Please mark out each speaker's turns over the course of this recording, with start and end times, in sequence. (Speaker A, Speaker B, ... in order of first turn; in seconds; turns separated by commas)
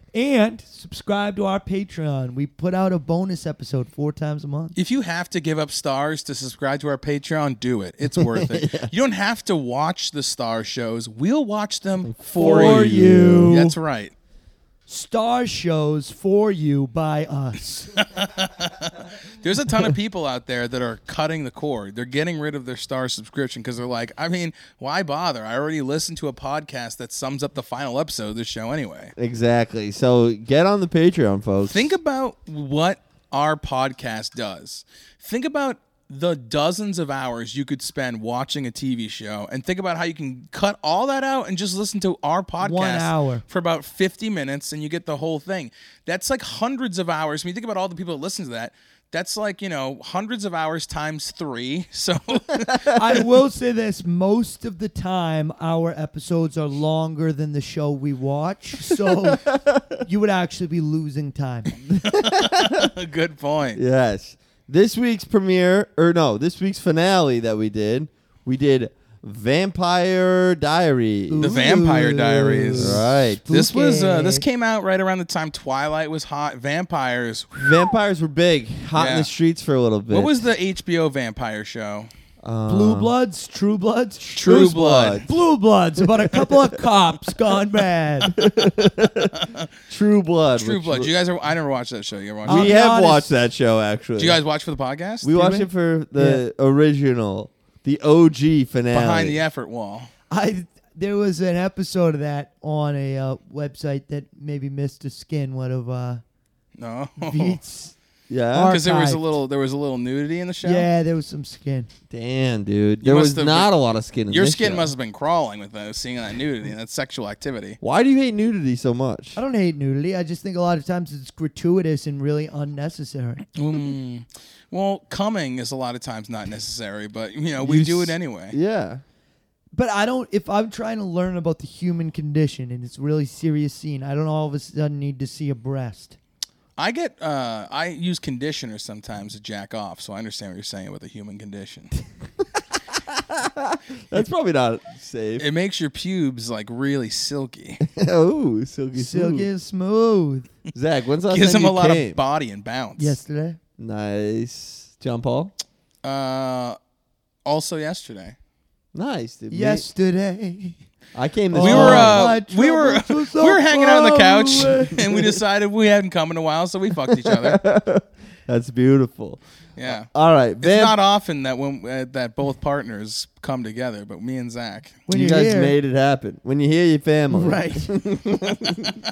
Speaker A: 0.1-4.8, Speaker B: 4.8-14.1, Speaker C: 8.1-8.9, Speaker C: 12.0-13.6, Speaker A: 12.4-13.8, Speaker A: 14.9-18.0, Speaker B: 18.0-29.1, Speaker C: 29.2-31.9, Speaker B: 31.7-52.9, Speaker A: 42.6-43.4, Speaker C: 52.6-53.0, Speaker A: 53.0-61.7, Speaker C: 59.1-60.0, Speaker C: 61.9-62.9, Speaker B: 62.0-63.8, Speaker C: 63.8-71.9, Speaker A: 71.3-74.4, Speaker B: 71.4-77.9, Speaker C: 72.7-73.4, Speaker C: 77.6-80.4, Speaker B: 79.0-79.3, Speaker B: 80.1-82.1, Speaker C: 82.4-83.1, Speaker A: 82.7-84.4, Speaker B: 84.4-85.3, Speaker C: 84.4-85.3, Speaker A: 85.3-88.3, Speaker C: 86.3-86.6, Speaker C: 88.3-91.1, Speaker B: 90.6-92.7, Speaker C: 92.5-94.4, Speaker A: 92.5-93.3, Speaker B: 94.2-95.4, Speaker C: 95.2-99.4, Speaker A: 95.3-96.4, Speaker B: 98.9-100.1, Speaker A: 100.3-106.2, Speaker B: 106.8-107.6, Speaker A: 107.2-108.0, Speaker C: 108.3-108.8, Speaker A: 108.5-109.3, Speaker B: 108.7-110.9, Speaker A: 110.6-111.9, Speaker C: 112.1-114.9, Speaker B: 113.0-113.7, Speaker B: 114.3-117.8, Speaker C: 117.8-119.4, Speaker A: 119.4-123.4, Speaker B: 123.5-128.6, Speaker C: 127.6-129.0, Speaker A: 129.7-136.2, Speaker B: 136.8-141.9, Speaker C: 142.9-145.4, Speaker B: 145.4-147.8, Speaker C: 147.8-149.5, Speaker A: 149.0-150.5, Speaker C: 150.7-152.2, Speaker B: 151.3-153.2, Speaker A: 153.0-153.6, Speaker C: 153.8-155.5, Speaker B: 156.0-156.8, Speaker B: 157.4-158.4, Speaker C: 158.9-159.9, Speaker A: 159.5-160.8, Speaker C: 161.2-162.3, Speaker A: 161.5-165.0, Speaker B: 161.6-167.6, Speaker C: 167.1-171.0, Speaker B: 169.8-170.1, Speaker B: 170.6-175.0, Speaker A: 175.1-175.7, Speaker C: 175.1-179.0, Speaker A: 177.3-177.9